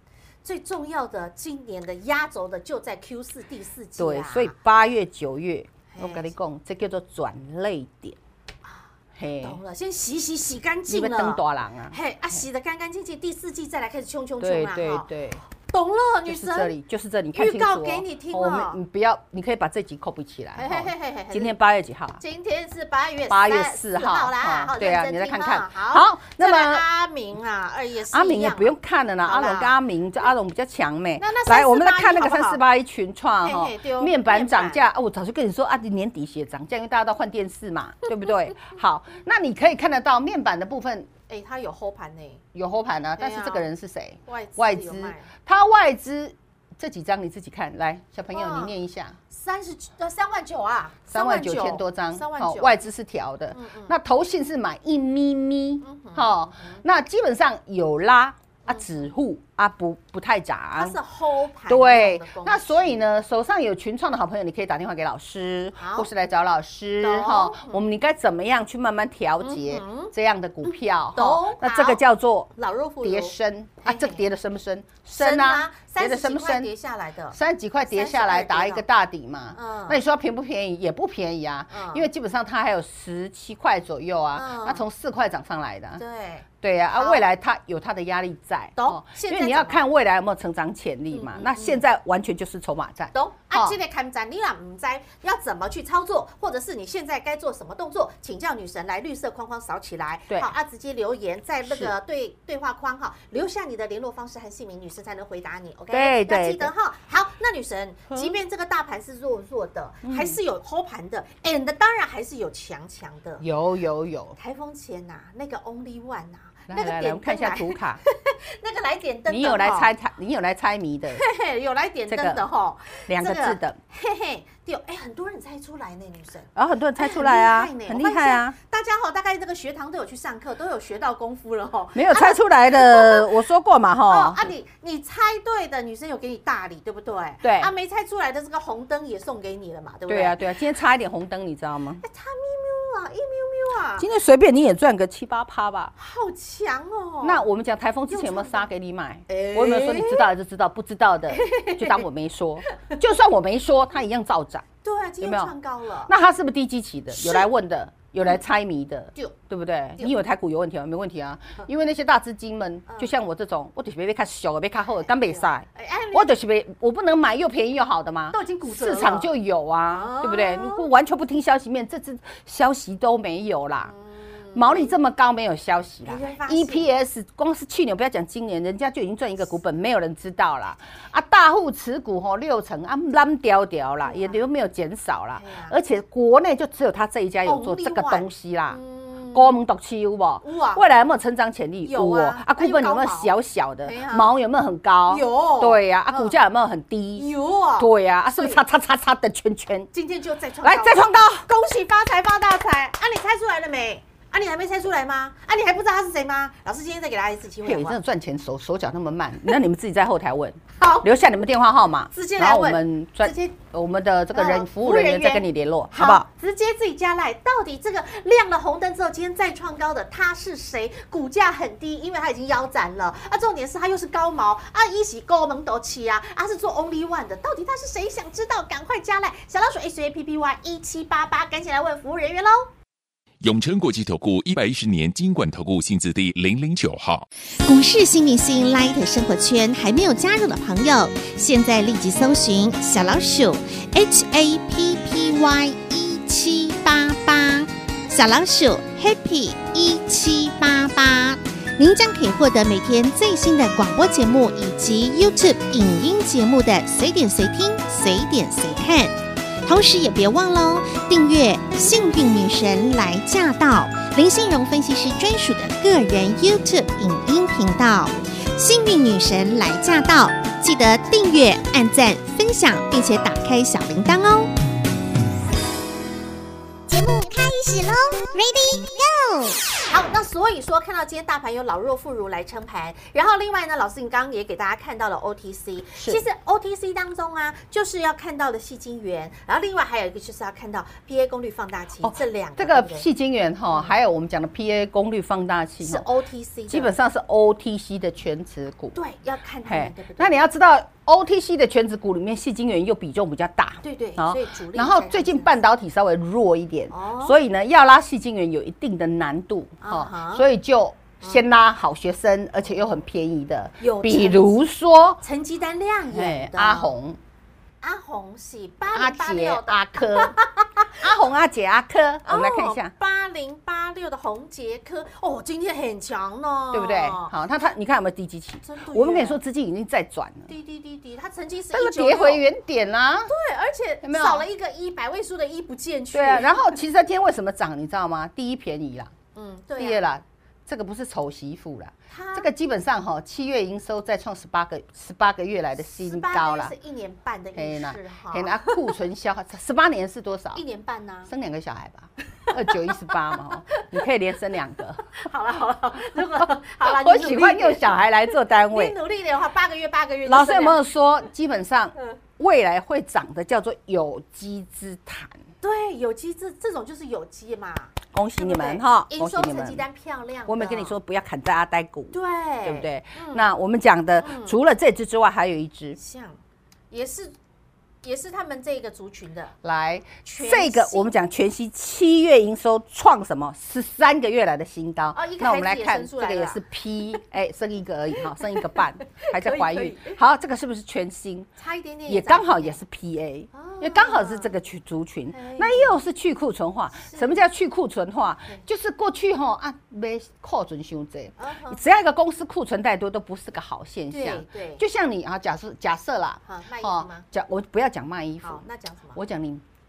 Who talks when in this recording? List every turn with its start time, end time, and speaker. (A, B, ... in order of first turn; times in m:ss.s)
0:00.4-0:04.6 A
0:04.0-0:08.2 B
0:05.9-0:06.3 A
0:08.6-0:15.1 A
0:09.2-0:09.6 B
0:10.9-0:12.4 B
0:14.4-0:15.4 B
0:15.6-0:16.8 A
0:16.3-0:22.2 B
0:17.3-0:18.8 A
0:20.6-0:21.5 A
0:22.2-0:29.8 A
0:23.3-0:26.9 B
0:28.1-0:41.1 B
0:31.2-0:32.6 A
0:33.4-0:34.8 A
0:41.3-0:42.4 A
0:42.5-0:49.2 B
0:43.2-0:43.7 A
0:44.3-0:45.3 A
0:48.3-0:48.8 A
0:49.3-0:52.8 A
0:51.1-1:01.0 B
0:53.5-0:53.9 A
0:55.8-0:56.8 A
1:00.8-1:03.0 A
1:01.7-1:16.7 B
1:05.8-1:06.1 A
1:07.0-1:07.8 A
1:09.4-1:10.1 A
1:10.6-1:12.0 A
1:12.6-1:14.2 A
1:15.2-1:17.4 A
1:17.3-1:26.0 B
1:17.9-1:18.8 A
1:19.5-1:20.0 A
1:21.7-1:22.1 A
1:24.4-1:24.8 A
1:26.0-1:27.2 A
1:26.6-1:33.8 B
1:28.8-1:29.8 A
1:31.1-1:31.8 A
1:33.1-1:53.4 A
1:41.7-1:41.9 B
1:45.9-1:46.7 B
1:48.1-1:48.4 B
1:50.0-1:50.4 B
1:53.4-1:54.4 B
1:54.4-1:59.9 A
1:56.7-1:58.0 B
1:59.3-2:01.2 B
2:01.1-2:13.3 A
2:02.1-2:02.4 B
2:03.1-2:03.8 B
2:06.6-2:08.6 B
2:12.0-2:14.5 B
2:14.1-2:20.5 A
2:17.4-2:17.7 B
2:20.1-2:22.0 B
2:22.0-2:24.1 A
2:24.0-2:25.9 B
2:26.0-2:27.5 A
2:27.2-2:34.6 B
2:28.1-2:28.7 A
2:29.3-2:30.3 A
2:31.3-2:32.0 A
2:34.8-2:36.1 A
2:35.2-2:35.5 B
2:36.1-2:53.9 B
2:37.2-2:37.5 A
2:42.9-2:43.2 A
2:45.2-2:46.3 A
2:48.3-2:49.3 A
2:49.9-2:50.9 A
2:53.9-2:55.0 A
2:54.6-3:08.8 B
2:56.0-2:56.9 A
3:04.0-3:04.4 A
3:05.4-3:05.7 A
3:07.4-3:09.6 A
3:09.3-3:19.9 B
3:10.4-3:10.8 A
3:11.8-3:13.3 A
3:13.8-3:14.3 A
3:15.1-3:16.4 A
3:17.2-3:18.6 A
3:19.9-3:28.0 A
3:20.6-3:21.5 B
3:27.6-3:36.3 B
3:30.8-3:31.1 A
3:32.1-3:33.6 A
3:34.4-3:52.7 A
3:53.4-3:57.2 C
3:57.7-4:34.5 D
4:36.9-4:39.0 D
4:39.9-4:53.1 A
4:46.0-4:46.2 B
4:52.0-4:56.1 B
4:55.8-4:56.9 A
4:56.7-4:59.0 B
4:58.9-5:00.4 A
4:59.7-5:15.2 B
5:03.8-5:05.6 A
5:06.9-5:07.4 A
5:09.8-5:10.4 A
5:13.8-5:14.6 A
5:15.2-5:17.0 A
5:16.1-5:17.2 B
5:17.8-5:21.0 A
5:18.9-5:20.4 B
5:21.0-5:22.9 B
5:22.2-5:27.4 A
5:26.7-5:30.5 B
5:28.6-5:29.4 A
5:30.5-5:32.4 A
5:31.7-5:33.3 B
5:33.3-5:36.6 A
5:34.0-5:34.5 B
5:36.1-5:39.1 B
5:39.4-5:40.1 A
5:39.8-5:46.7 B
5:42.1-5:42.5 A
5:45.8-5:48.8 A
5:47.6-5:50.6 B
5:50.5-5:51.3 A
5:51.3-5:55.0 B
5:52.5-5:53.1 A
5:55.1-6:00.8 A
5:56.2-5:59.0 B
6:00.3-6:05.4 B
6:05.6-6:10.9 A
6:08.1-6:09.8 B
6:10.5-6:16.0 B
6:12.1-6:13.5 A
6:14.2-6:14.6 A
6:16.0-6:16.4 A
6:16.9-6:17.4 A
6:18.0-6:19.5 A
6:19.6-6:31.5 B
6:20.2-6:21.1 A
6:25.1-6:26.6 A
6:28.2-6:30.2 A
6:31.6-6:32.8 A
6:32.1-6:48.6 B
6:33.5-6:34.6 A
6:35.3-6:36.0 A
6:37.0-6:37.4 A
6:41.4-6:41.8 A
6:44.1-6:44.8 A
6:46.4-6:47.2 A
6:48.4-6:49.2 A
6:49.2-6:49.6 B